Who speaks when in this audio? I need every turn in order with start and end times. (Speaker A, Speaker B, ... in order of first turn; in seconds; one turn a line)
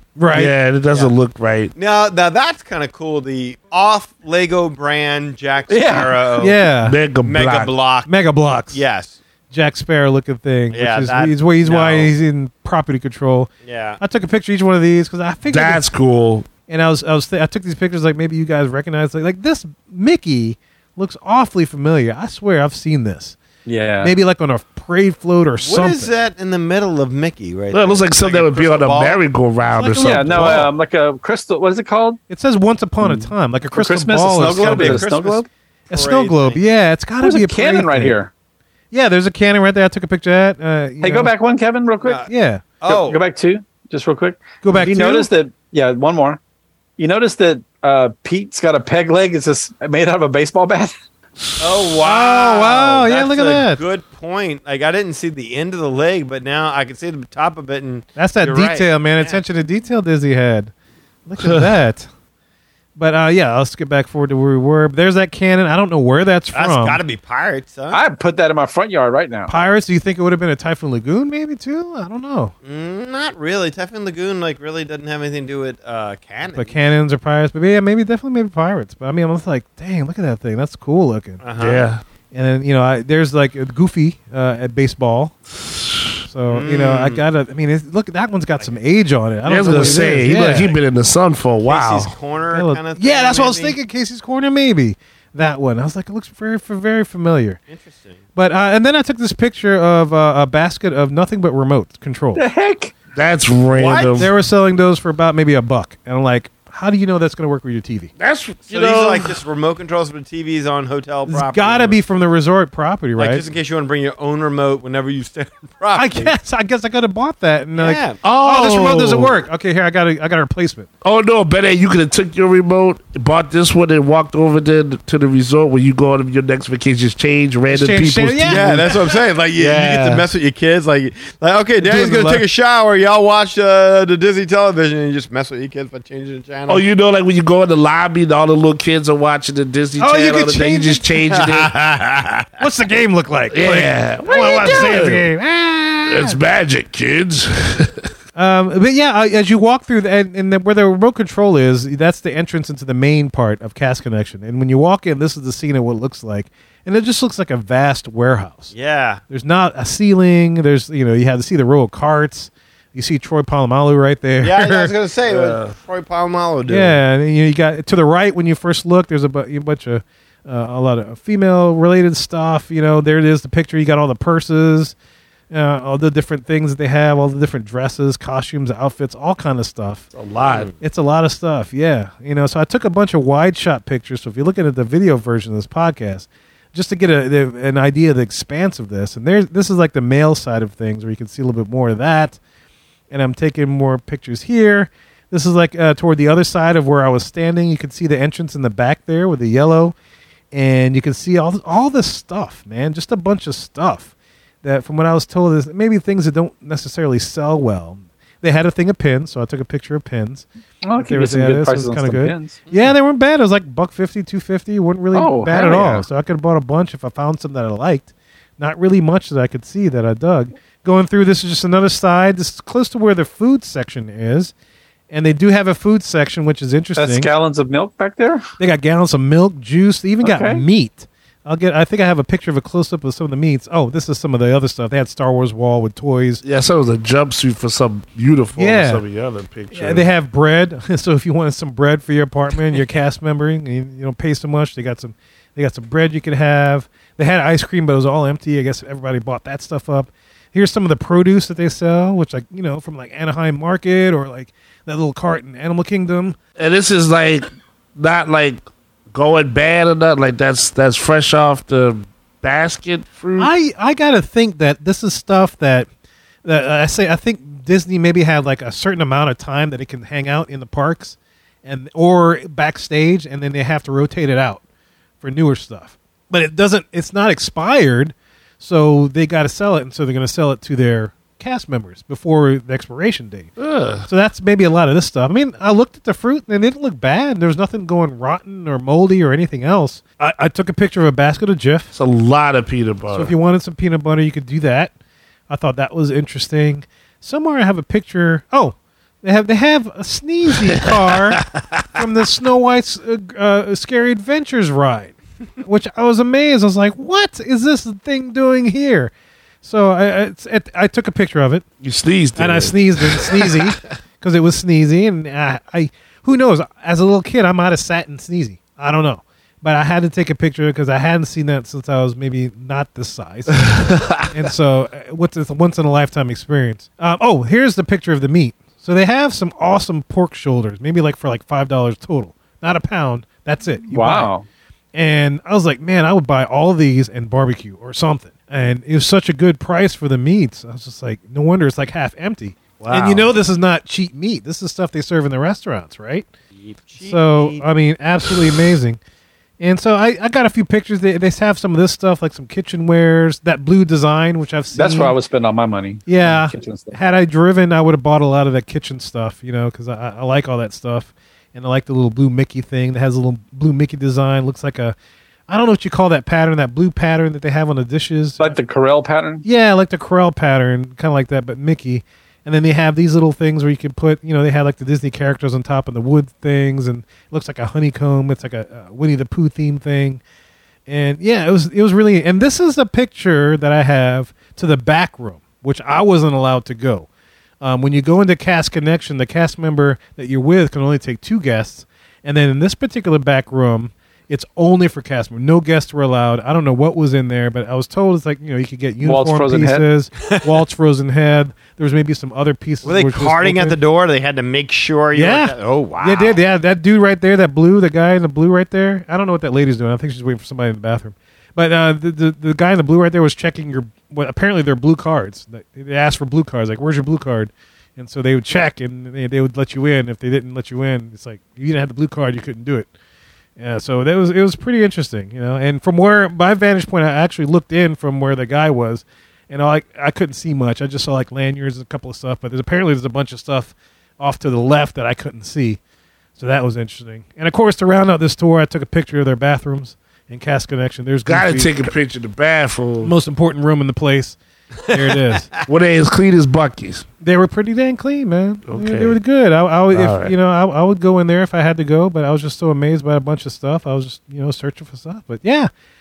Speaker A: 0.1-0.5
Speaker B: 0.3-1.7
Speaker C: 1.7-6.6
Speaker D: 5.7-6.2
Speaker A: 6.4-7.0
Speaker B: 6.8-7.7
Speaker C: 7.2-8.1
Speaker A: 8.1-8.8
Speaker C: 8.7-9.2
Speaker A: 9.5-15.8
Speaker C: 10.7-12.1
Speaker C: 13.6-14.0
Speaker B: 15.5-16.5
Speaker A: 16.7-23.4
Speaker D: 23.6-24.1
Speaker A: 24.0-26.1
Speaker C: 25.6-29.2
Speaker B: 27.7-30.7
Speaker A: 29.7-30.7
Speaker D: 30.0-32.2
Speaker A: 32.3-35.1
Speaker D: 33.0-35.5
Speaker C: 34.3-36.6
Speaker A: 35.9-38.1
Speaker D: 37.2-38.3
Speaker A: 38.9-41.3
Speaker D: 41.0-42.2
Speaker C: 42.0-42.3
Speaker A: 42.3-42.6
Speaker C: 42.8-43.2
Speaker D: 42.8-46.4
Speaker A: 44.6-45.3
Speaker D: 47.0-50.9
Speaker C: 51.6-59.4
Speaker A: 52.0-53.8
Speaker A: 58.1-60.7
Speaker A: 61.3-62.1
Speaker A: 63.0-67.0
Speaker C: 66.5-68.0
Speaker D: 67.9-69.5
Speaker A: 69.5-72.5
Speaker C: 72.6-76.8
Speaker A: 76.5-81.4
Speaker C: 81.4-81.8
Speaker B: 81.6-82.0
Speaker A: 82.3-85.3
Speaker A: 86.2-90.7
Speaker C: 86.5-87.2
Speaker B: 89.5-92.1
Speaker C: 89.6-90.7
Speaker C: 91.6-93.8
Speaker A: 92.5-97.6
Speaker C: 97.7-98.2
Speaker A: 98.3-102.4
Speaker D: 102.3-102.9
Speaker B: 103.1-104.3
Speaker C: 103.7-104.3
Speaker A: 104.2-108.1
Speaker B: 108.2-109.3
Speaker C: 108.7-112.0
Speaker A: 111.3-113.5
Speaker C: 113.2-116.3
Speaker A: 115.9-120.9
Speaker C: 117.8-118.2
Speaker B: 118.2-119.3
Speaker B: 121.0-128.9
Speaker A: 127.7-130.2
Speaker C: 128.4-136.9
Speaker A: 131.8-132.4
Speaker B: 136.7-141.7
Speaker A: 140.0-141.1
Speaker C: 141.3-142.5
Speaker A: 142.6-146.4
Speaker B: 143.5-145.3
Speaker B: 146.1-148.1
Speaker A: 148.3-158.7
Speaker C: 158.7-159.2
Speaker A: 159.3-164.9
Speaker C: 164.4-167.0
Speaker B: 165.3-165.7
Speaker A: 166.7-174.9
Speaker A: 175.5-180.1
Speaker B: 180.1-180.7
Speaker C: 180.4-180.7
Speaker A: 180.8-192.4
Speaker A: 193.1-199.9
Speaker A: 200.5-204.1
Speaker A: 204.6-210.5
Speaker D: 210.8-212.6
Speaker A: 211.0-224.5
Speaker D: 215.1-216.1
Speaker A: 225.1-227.3
Speaker D: 226.9-228.5
Speaker A: 228.6-236.4
Speaker D: 230.2-230.6
Speaker B: 236.4-240.1
Speaker A: 238.6-239.0
Speaker A: 239.7-256.4
Speaker B: 256.6-263.5
Speaker A: 263.4-265.9
Speaker A: 266.4-274.6
Speaker A: 275.2-283.5
Speaker B: 283.6-284.1
Speaker A: 284.1-291.9
Speaker B: 291.9-293.3
Speaker A: 293.1-294.9
Speaker A: 295.5-309.1
Speaker B: 301.4-301.8
Speaker A: 309.6-311.6
Speaker B: 311.8-313.8
Speaker A: 312.4-334.3
Speaker B: 323.6-324.3
Speaker D: 333.9-334.4
Speaker A: 334.9-346.3
Speaker B: 342.8-343.3
Speaker C: 346.5-347.7
Speaker A: 347.0-349.0
Speaker A: 349.6-355.1
Speaker D: 354.7-357.0
Speaker A: 356.1-364.9
Speaker A: 365.5-368.6
Speaker D: 368.4-369.4
Speaker A: 369.4-380.2
Speaker A: 380.9-387.1
Speaker A: 387.6-403.8
Speaker D: 399.0-399.9
Speaker C: 402.8-406.4
Speaker A: 405.1-422.9
Speaker A: 423.6-435.8
Speaker A: 436.4-441.9
Speaker B: 441.2-443.1
Speaker A: 443.0-445.5
Speaker B: 445.6-447.1
Speaker A: 447.2-455.7
Speaker B: 448.7-449.2
Speaker B: 449.9-450.3